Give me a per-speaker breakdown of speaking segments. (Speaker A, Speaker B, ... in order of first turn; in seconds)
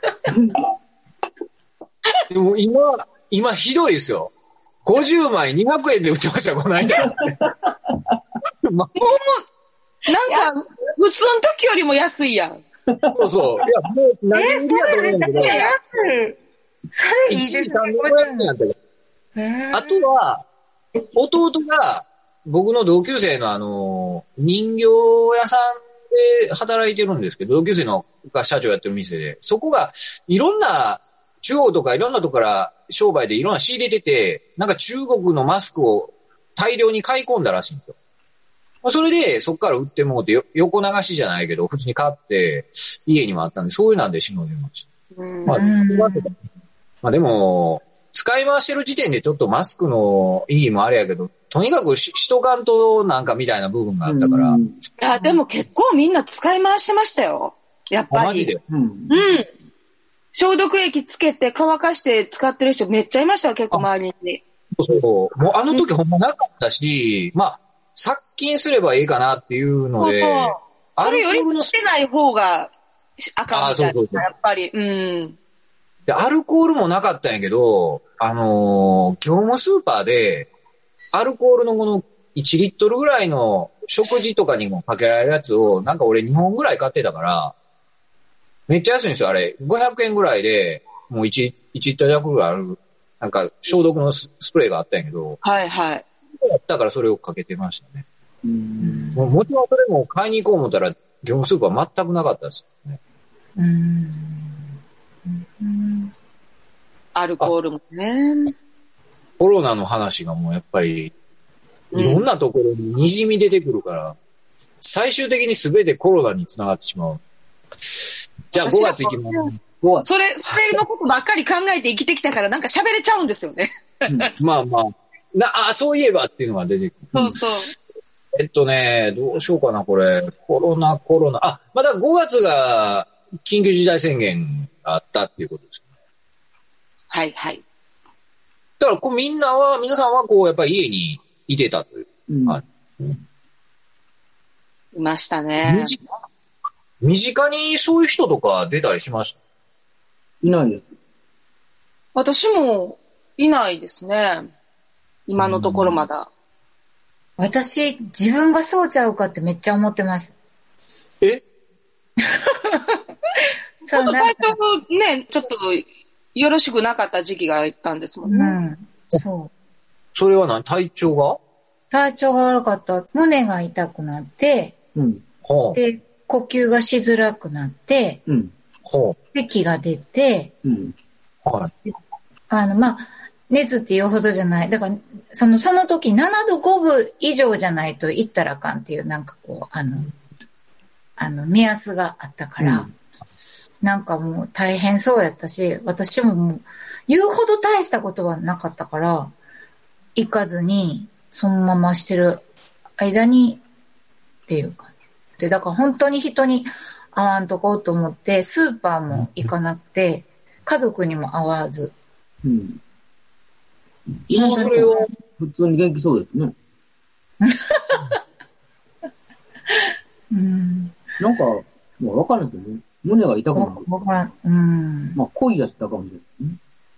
Speaker A: 0.3-0.6, 7.0-7.5, 12.9-13.5, 54.0-54.8, 58.7-59.3, 98.4-99.2, 142.3-142.6, 150.4-150.9, 174.9-175.2, 178.3-178.5, 180.6-180.9, 192.6-192.9, 212.4-212.8, 214.3-216.6, 221.2-223.9, 225.2-226.6
Speaker B: 2.3-4.3, 4.8-7.4, 8.6-8.9, 13.2-15.6, 17.3-18.7, 19.7-20.4, 21.1-38.0, 38.8-44.9, 45.5-46.3, 47.0-54.6, 58.1-58.6, 64.8-71.7, 73.5-74.2, 76.1-80.5, 81.1-87.5, 88.7-95.4, 96.4-98.0, 99.2-103.0, 109.4-111.1, 111.9-114.2, 114.8-117.2, 117.9-119.5, 120.5-120.8, 124.4-127.3, 128.3-135.8, 138.8-143.2, 145.6-146.0, 147.0-149.4, 155.4-156.0, 170.2-171.4, 175.4-175.8, 178.8-179.2, 181.4-181.7, 214.3-215.1
Speaker C: 8.9-9.4, 10.1-12.6, 14.9-15.8, 45.1-45.6, 55.0-58.5, 59.1-59.5, 60.3-64.4, 70.0-72.7, 73.3-75.4, 95.4-96.1, 107.2-108.5, 111.9-112.3, 118.5-119.5, 120.0-124.3, 127.1-127.7, 137.1-137.6, 144.9-145.9, 152.2-154.5, 155.3-156.3, 163.9-168.6
Speaker D: 14.3-16.4, 16.9-18.5, 19.4-20.1, 45.5-46.3, 98.8-99.2, 103.6-104.7, 105.3-106.1, 157.4-160.3, 162.2-163.0, 163.8-164.6, 168.2-169.5, 171.9-174.8, 175.7-178.2, 179.3-180.5, 182.5-190.1, 191.2-192.9, 193.8-199.3, 200.2-202.4, 203.0-203.6, 204.5-211.9, 214.3-215.1, 217.4-218.2, 220.3-221.0, 223.6-225.2